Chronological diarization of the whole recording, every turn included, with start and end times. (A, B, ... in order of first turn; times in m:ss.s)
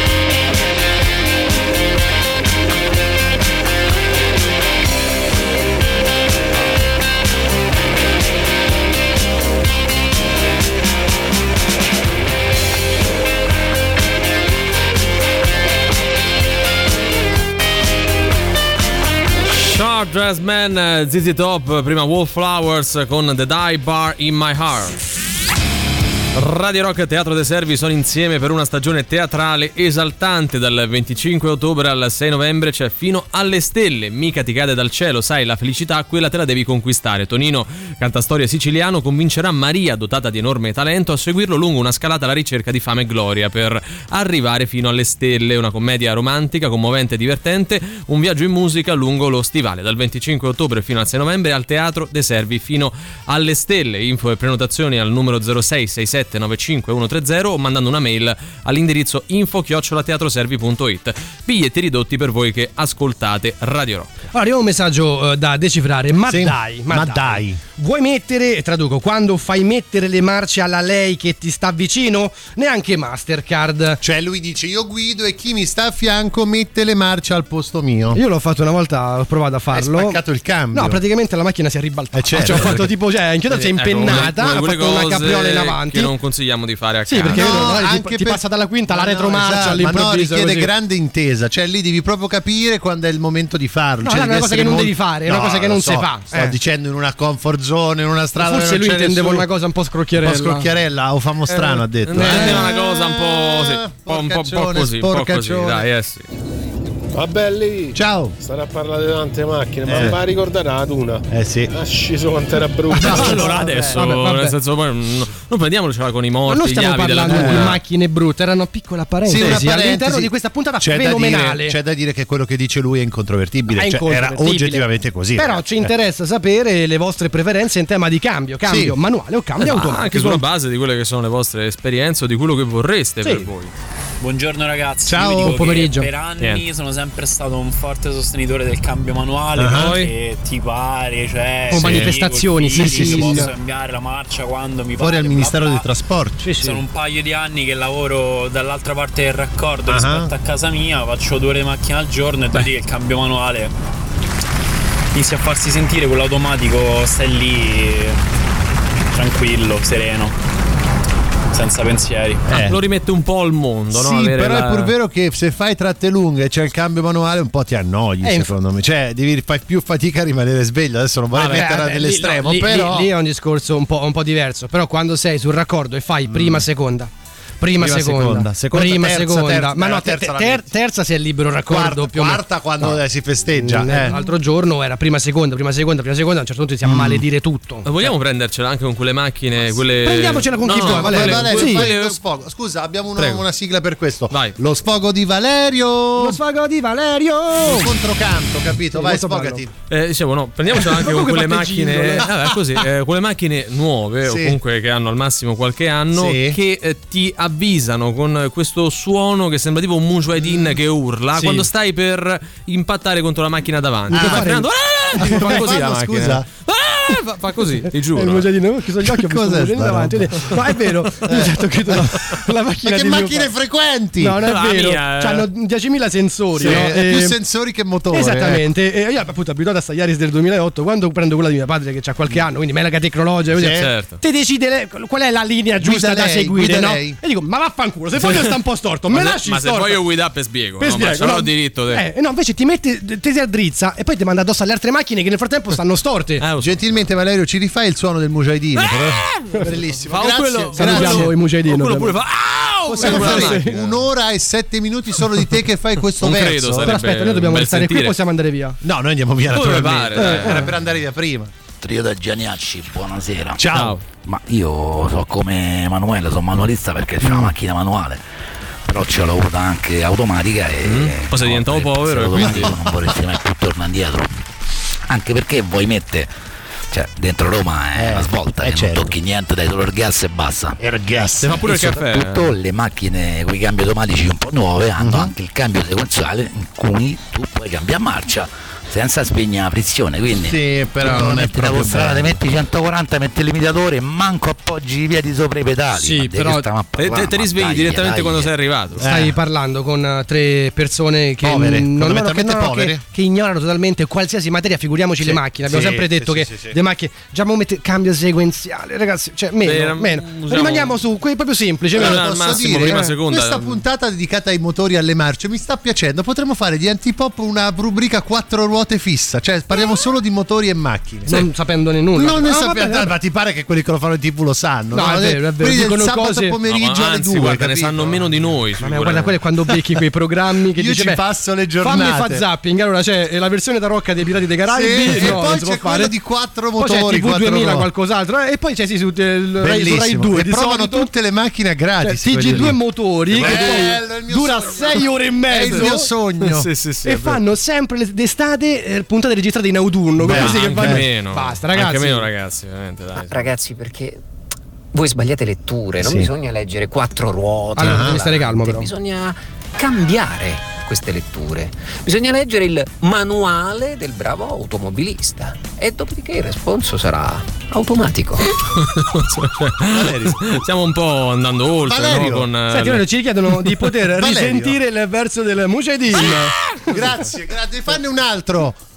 0:19.5-0:25.0 A
0:26.3-1:04.2 A
1:04.3-1:14.0 B
1:06.3-1:07.6 C
1:14.0-1:18.2 C
1:18.1-1:20.2 B
1:19.7-1:21.0 C
1:20.7-1:26.1 B
1:22.1-1:22.9 C
1:22.4-1:22.7 A
1:23.5-1:27.7 A
1:24.0-1:24.3 C
1:27.1-1:30.7 B
1:27.2-1:39.4 C
1:34.0-1:36.6 B
1:38.4-1:40.7 B
1:40.2-1:45.8 C
1:41.9-1:46.2 A
1:42.1-1:42.6 B
1:47.1-1:53.2 D
1:47.9-1:48.3 C
1:49.9-1:50.2 C
1:51.3-1:51.7 C
1:53.0-1:54.1 C
1:53.0-1:54.5 B
1:53.0-1:57.8 A
1:56.5-2:01.8 B
1:57.3-1:57.7 C
1:59.2-2:05.9 C
2:03.7-2:10.4 B
2:08.6-2:08.9 C
2:09.6-2:13.7 A
2:13.2-2:13.5 B
2:14.2-2:25.9 E
2:15.0-2:15.6 C
2:15.3-2:16.1 B
2:16.4-2:16.6 A
2:19.6-2:20.0 C
2:19.8-2:20.1 B
2:21.7-2:23.5 B
2:22.8-2:23.5 C
2:25.0-2:26.5 C
2:26.4-2:26.8 B
2:26.6-2:33.7 E
2:29.9-2:30.3 C
2:35.1-2:38.2 E
2:39.1-2:40.4 E
2:41.5-2:42.4 E
2:42.5-2:42.8 C
2:42.5-2:44.9 A
2:43.9-2:53.1 C
2:48.2-2:48.5 B
2:51.3-2:51.6 A
2:51.4-3:03.0 B
2:56.3-2:56.6 C
2:57.8-3:00.6 C
3:01.7-3:04.2 C
3:03.5-3:08.1 B
3:06.8-3:07.2 C
3:07.8-3:12.2 A
3:10.0-3:11.9 B
3:10.7-3:16.4 C
3:13.2-3:13.4 A
3:14.3-3:14.6 A
3:16.2-3:17.9 B
3:17.5-3:19.7 C
3:18.9-3:19.6 B
3:19.9-3:38.4 A
3:20.8-3:22.2 B
3:24.2-3:24.6 C
3:26.1-3:26.6 C
3:30.4-3:30.7 C
3:31.4-3:31.7 B
3:34.1-3:34.5 C
3:34.1-3:34.7 B
3:35.2-3:36.4 C
3:35.2-3:35.7 B
3:37.8-3:43.5 B
3:39.0-3:40.5 C
3:41.2-3:42.3 C
3:42.8-3:44.4 C
3:44.2-3:47.4 B
3:44.4-3:45.4 A
3:46.6-3:48.6 C
3:48.1-4:00.0 B
3:53.5-3:53.9 C
3:53.7-3:54.2 A
3:55.8-3:57.2 C
3:58.2-3:58.6 A
3:59.1-4:02.0 A
4:00.8-4:06.4 B
4:06.4-4:07.0 A
4:06.6-4:11.3 C
4:08.8-4:09.5 A
4:10.1-4:14.0 A
4:10.8-4:12.2 B
4:12.9-4:16.9 C
4:13.0-4:13.7 B
4:16.2-4:18.1 A
4:16.8-4:18.8 B
4:18.8-4:21.5 C
4:19.5-4:20.7 A
4:20.2-4:20.7 B
4:21.8-4:28.2 F
4:23.6-4:24.0 C
4:23.7-4:24.0 A
4:27.2-4:27.5 C
4:28.8-4:34.3 F
4:30.8-4:32.8 A
4:32.4-4:32.8 C
4:35.1-4:36.3 F
4:36.9-4:58.5 F
4:37.9-4:39.2 C
4:40.8-4:41.6 C
4:41.4-4:42.6 A
4:45.0-4:45.3 C
4:50.5-4:52.4 C
4:55.9-4:56.7 B
4:57.0-4:59.0 A
4:59.0-4:59.3 C
4:59.0-5:13.1 B
5:01.4-5:03.0 C
5:05.2-5:06.8 C
5:09.6-5:11.0 A
5:11.9-5:21.4 C
5:11.9-5:13.8 A
5:21.3-5:23.1 B
5:22.1-5:28.5 C
5:24.9-5:26.6 B
5:26.7-5:29.3 A
5:28.8-5:31.2 B
5:30.8-5:32.4 C
5:31.8-5:36.1 B
5:34.7-5:37.9 C
5:35.0-5:35.3 A
5:36.8-5:41.1 B
5:39.6-5:46.7 C
5:42.0-5:46.1 B
5:42.4-5:42.7 A
5:43.3-5:43.9 A
5:45.6-5:47.4 A
5:47.0-5:52.2 B
5:50.2-5:51.0 C
5:50.2-5:53.5 A
5:53.3-5:54.2 G
5:54.9-6:08.4 G
5:56.0-5:56.3 C
5:57.7-5:58.2 C
5:57.8-5:58.9 B
6:08.7-6:13.0 A
6:09.8-6:10.6 C
6:11.8-6:12.5 C
6:12.7-6:16.5 B
6:14.2-6:14.8 C
6:16.2-6:17.0 A
6:16.2-6:18.8 C